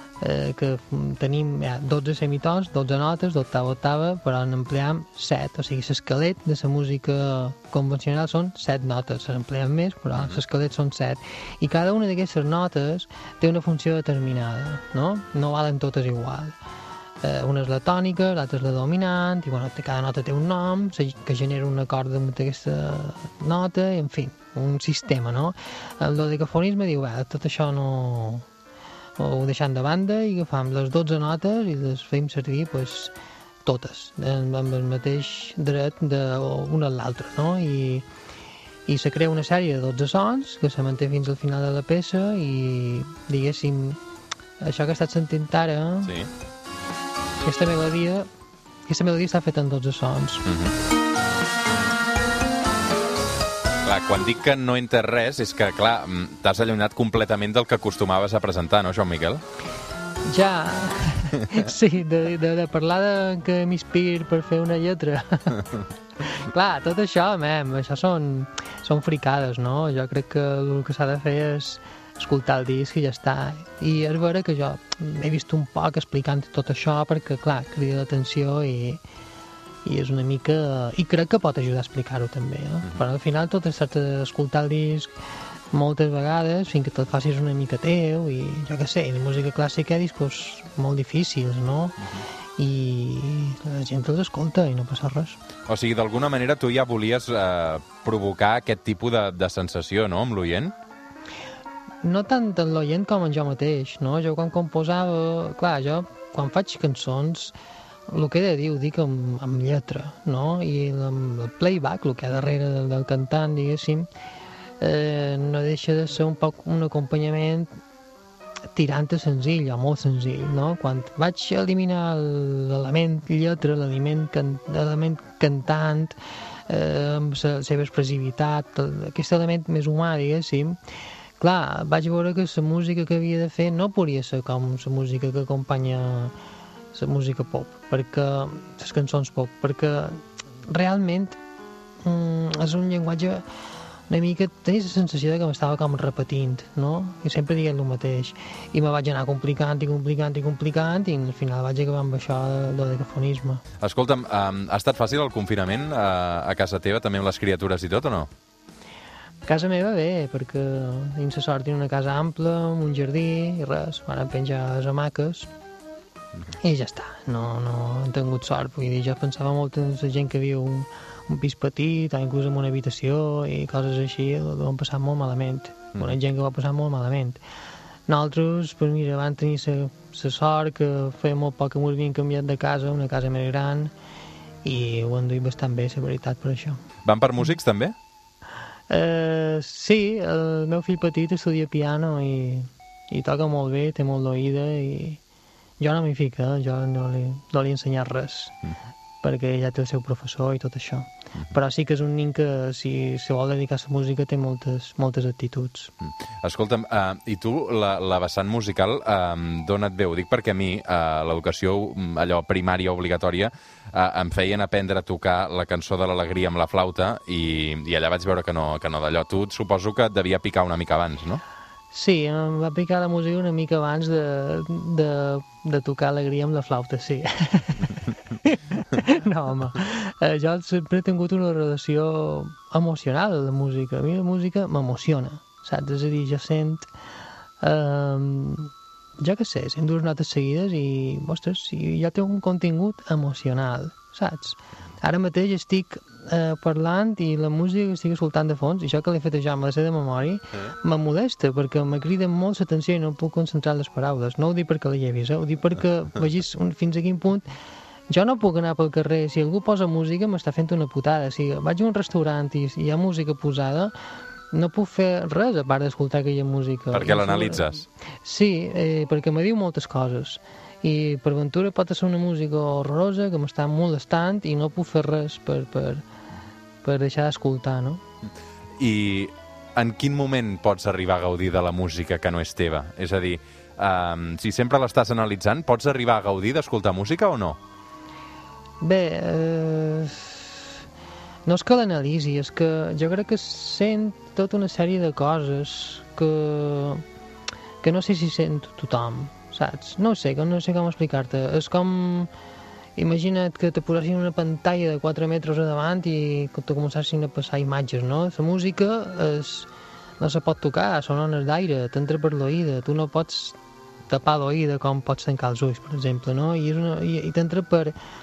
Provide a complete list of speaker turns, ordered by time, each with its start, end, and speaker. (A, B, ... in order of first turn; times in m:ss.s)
0:00.2-0:16.6 A
0:17.2-0:28.4 A
0:29.2-0:38.1 A
0:38.9-0:44.0 A
0:44.6-0:46.1 A
0:46.0-0:46.3 B
0:47.4-0:48.3 A
0:48.9-0:50.4 A
0:50.5-0:50.7 B
0:53.8-0:59.4 B
1:00.3-1:05.6 A
1:06.2-1:19.0 A
1:19.8-1:25.1 A
1:25.7-1:32.0 A
1:32.6-1:35.4 A
1:35.7-1:40.7 B
1:42.0-1:47.5 A
1:48.1-1:54.1 A
1:54.8-1:57.7 A
1:58.7-2:06.2 A
2:06.7-2:10.8 A
2:11.4-2:16.3 A
2:16.9-2:21.4 A
2:22.0-2:23.4 A
2:24.1-2:33.6 A
2:33.8-2:38.3 B
2:39.4-2:45.5 A
2:46.6-2:57.4 A
2:58.1-3:03.9 A
3:04.6-3:06.8 A
3:07.0-3:07.9 B
3:08.9-3:15.2 A
3:15.8-3:18.6 A
3:19.2-3:25.9 A
3:26.0-3:41.4 B
3:41.9-3:56.9 A
3:57.6-4:17.5 A
4:18.1-4:23.9 A
4:24.5-4:27.6 A
4:26.9-4:27.8 B
4:28.2-4:36.0 A
4:36.8-4:38.0 A
4:38.8-4:47.6 B
4:48.8-4:50.5 A
4:51.4-4:57.0 A
4:57.8-5:02.3 A
5:03.0-5:09.7 A
5:10.2-5:13.6 A
5:14.1-5:17.9 A